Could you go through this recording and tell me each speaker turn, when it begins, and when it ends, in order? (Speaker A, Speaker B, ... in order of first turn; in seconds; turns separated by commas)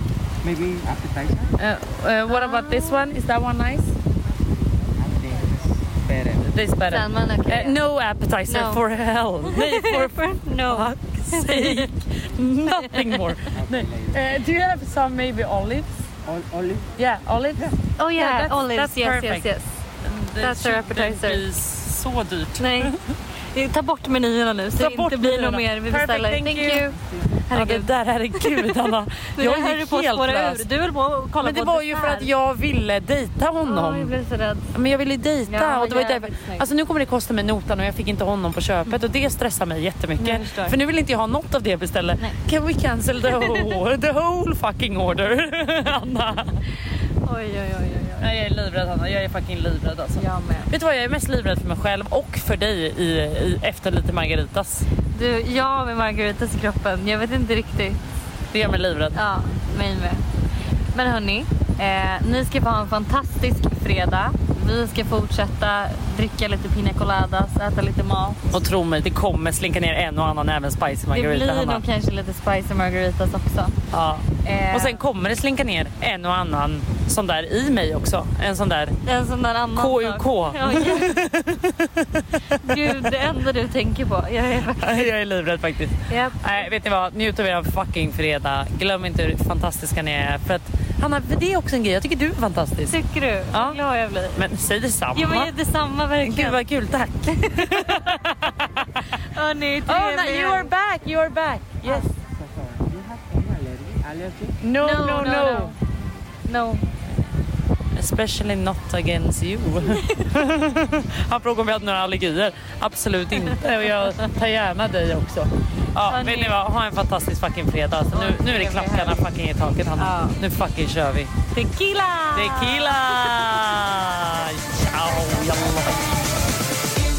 Speaker A: 0.4-1.5, Speaker B: 1.6-3.9, Speaker C: 2.3-3.1, Speaker A: 5.0-6.4, Speaker B: 6.4-10.2, Speaker C: 6.8-7.8, Speaker C: 8.5-8.8, Speaker C: 9.4-11.9, Speaker B: 10.7-15.9, Speaker C: 12.7-13.2, Speaker A: 13.5-14.1, Speaker A: 16.3-16.9, Speaker B: 17.0-19.5, Speaker C: 18.0-19.7, Speaker B: 20.0-23.0, Speaker C: 20.4-21.4, Speaker C: 22.6-23.0, Speaker C: 23.5-27.0, Speaker B: 24.8-26.9, Speaker C: 27.5-28.7, Speaker B: 27.5-30.6, Speaker C: 29.4-32.3, Speaker B: 31.4-34.1, Speaker C: 33.6-34.7, Speaker B: 34.7-46.6, Speaker C: 35.5-36.7, Speaker C: 40.2-40.8, Speaker C: 47.2-48.3, Speaker B: 48.2-54.9, Speaker C: 50.2-50.7, Speaker C: 55.1-58.0, Speaker B: 58.5-59.2, Speaker C: 59.1-60.2, Speaker C: 60.9-68.4, Speaker B: 68.5-71.8, Speaker C: 71.1-73.8, Speaker B: 73.9-79.0, Speaker C: 74.4-75.0, Speaker C: 79.0-81.2, Speaker B: 79.8-83.1, Speaker C: 82.5-85.1, Speaker B: 84.8-93.0, Speaker C: 86.1-86.7, Speaker C: 92.9-94.5, Speaker B: 93.5-93.8, Speaker B: 94.3-95.5, Speaker C: 95.1-96.6, Speaker B: 96.2-98.8, Speaker C: 97.3-98.0, Speaker C: 99.3-100.7, Speaker B: 99.9-102.1, Speaker A: 102.3-104.6, Speaker B: 104.6-105.7, Speaker C: 104.8-106.8, Speaker B: 108.0-121.3, Speaker C: 116.0-116.6, Speaker C: 118.1-119.3, Speaker C: 120.0-120.4, Speaker C: 121.5-123.4, Speaker B: 122.3-126.1